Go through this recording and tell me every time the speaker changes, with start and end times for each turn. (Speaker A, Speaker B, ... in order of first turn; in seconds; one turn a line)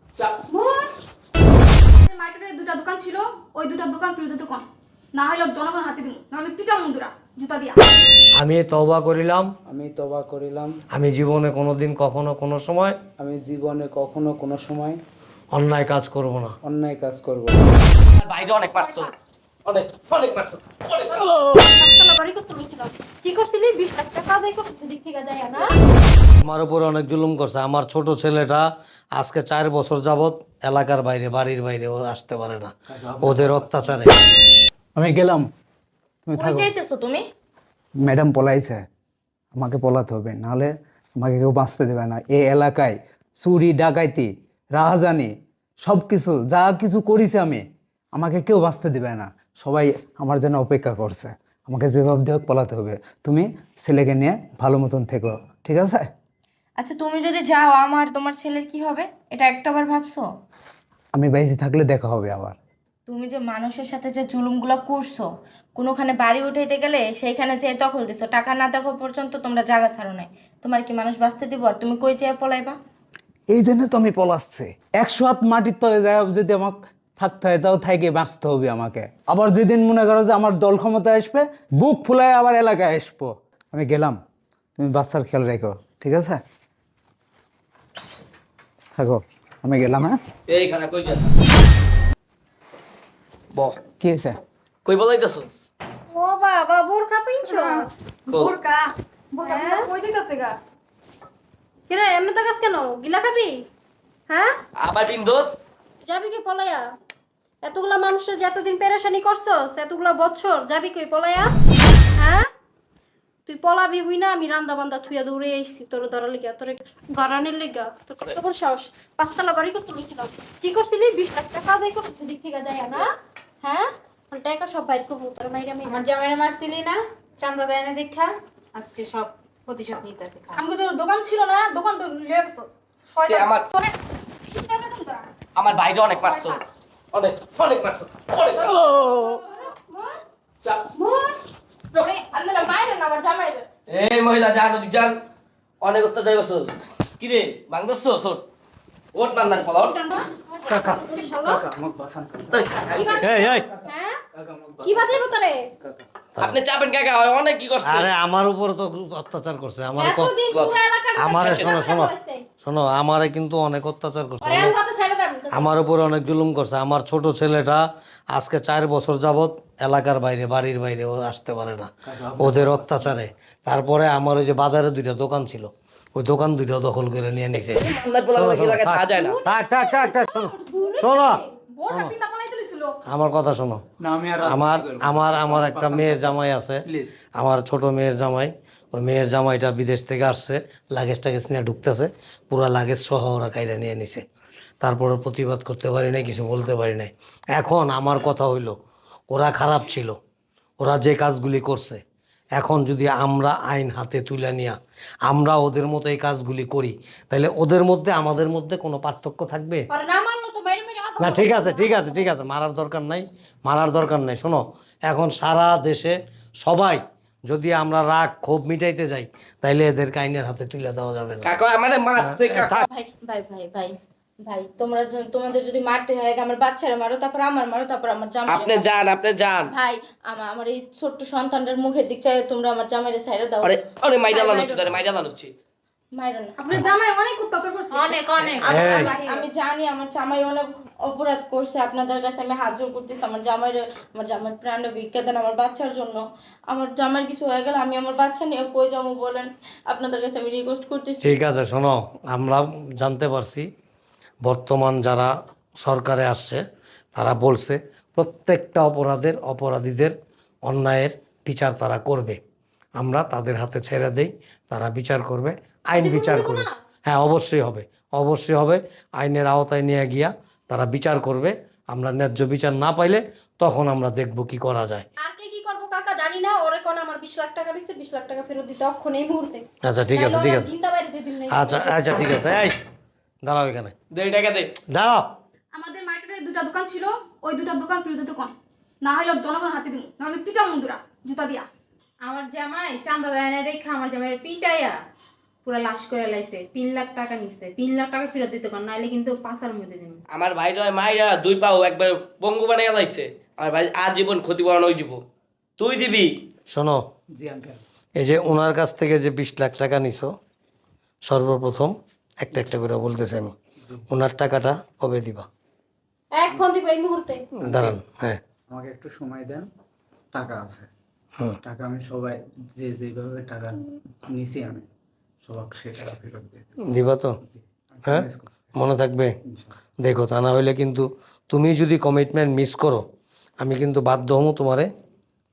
Speaker A: 0.5-0.8
Speaker B: 2.0-7.8
Speaker C: 8.4-9.5
Speaker D: 9.7-10.8
Speaker C: 10.9-13.0
Speaker D: 13.2-15.0
Speaker C: 15.5-16.5
Speaker D: 16.6-17.7
Speaker E: 18.2-19.1
Speaker A: 18.7-19.1
Speaker E: 19.6-21.2
Speaker A: 21.1-25.7
Speaker C: 26.4-34.1
Speaker D: 32.9-34.0
Speaker D: 35.0-35.5
Speaker D: 36.2-36.7
Speaker F: 36.4-37.2
Speaker D: 38.0-38.8
Speaker D: 39.5-56.1
Speaker F: 56.8-60.3
Speaker D: 61.1-62.6
Speaker F: 63.1-72.8
Speaker D: 73.5-84.2
Speaker D: 84.8-86.4
Speaker D: 88.9-90.2
Speaker E: 90.5-91.3
Speaker D: 94.0-94.4
Speaker E: 94.8-95.7
Speaker A: 96.1-97.9
Speaker B: 97.4-100.6
Speaker A: 99.5-99.9
Speaker A: 101.9-103.6
Speaker A: 104.3-104.5
Speaker E: 104.8-105.5
Speaker A: 106.0-106.8
Speaker A: 107.6-111.5
Speaker A: 112.2-112.5
Speaker A: 113.5-123.1
Speaker A: 123.6-126.1
Speaker G: 125.9-130.6
Speaker B: 130.5-133.9
Speaker E: 133.2-133.7
Speaker B: 134.5-135.3
Speaker E: 135.6-139.1
Speaker B: 136.1-136.6
Speaker A: 138.6-140.1
Speaker E: 140.6-140.9
Speaker A: 141.1-141.3
Speaker F: 142.2-143.6
Speaker E: 143.9-145.2
Speaker E: 145.8-148.4
Speaker E: 149.1-150.0
Speaker A: 149.9-151.6
Speaker D: 150.6-155.2
Speaker E: 152.5-153.2
Speaker A: 152.9-154.2
Speaker C: 153.2-153.6
Speaker A: 154.8-155.7
Speaker E: 156.4-158.1
Speaker C: 157.8-160.3
Speaker A: 160.0-162.4
Speaker E: 160.5-160.8
Speaker C: 161.2-162.1
Speaker E: 161.4-161.8
Speaker C: 162.6-164.8
Speaker A: 164.4-165.7
Speaker C: 165.5-182.1
Speaker D: 172.1-173.2
Speaker E: 177.8-179.4
Speaker A: 179.1-181.5
Speaker B: 181.6-183.0
Speaker C: 183.1-183.8
Speaker D: 184.0-187.2
Speaker C: 184.4-194.2
Speaker C: 194.8-198.8
Speaker C: 199.3-200.2
Speaker C: 200.8-202.0
Speaker C: 202.6-209.9
Speaker A: 209.9-212.2
Speaker C: 211.2-221.6
Speaker E: 221.4-222.9
Speaker C: 222.2-222.8
Speaker F: 222.9-223.9
Speaker F: 224.4-228.8
Speaker E: 228.5-229.7
Speaker F: 229.7-235.0
Speaker E: 233.6-235.5
Speaker F: 236.2-236.7
Speaker B: 236.6-238.8
Speaker G: 237.9-239.4
Speaker C: 238.6-239.1
Speaker F: 238.8-251.4
Speaker C: 251.2-253.7
Speaker C: 254.4-256.6
Speaker C: 257.1-260.1
Speaker C: 260.6-262.4
Speaker C: 263.0-275.0
Speaker A: 265.9-266.7
Speaker A: 275.2-282.2
Speaker C: 279.8-280.7
Speaker C: 281.5-282.7
Speaker C: 283.4-283.9
Speaker E: 284.1-284.7
Speaker C: 284.9-285.3
Speaker B: 285.7-291.6
Speaker G: 292.2-295.0
Speaker G: 295.6-300.2
Speaker E: 300.3-305.2
Speaker E: 305.8-306.3
Speaker C: 306.7-307.0
Speaker D: 307.3-307.8
Speaker C: 308.2-310.3
Speaker C: 311.3-313.5
Speaker C: 314.1-315.5
Speaker A: 316.3-317.5
Speaker D: 317.6-318.0
Speaker C: 317.6-318.4
Speaker D: 318.7-319.7
Speaker D: 320.3-320.9
Speaker D: 321.6-324.9
Speaker D: 325.4-326.8
Speaker C: 326.8-327.4
Speaker D: 327.4-328.7
Speaker C: 328.1-329.3
Speaker D: 329.5-329.7
Speaker C: 330.0-333.0
Speaker C: 333.6-334.9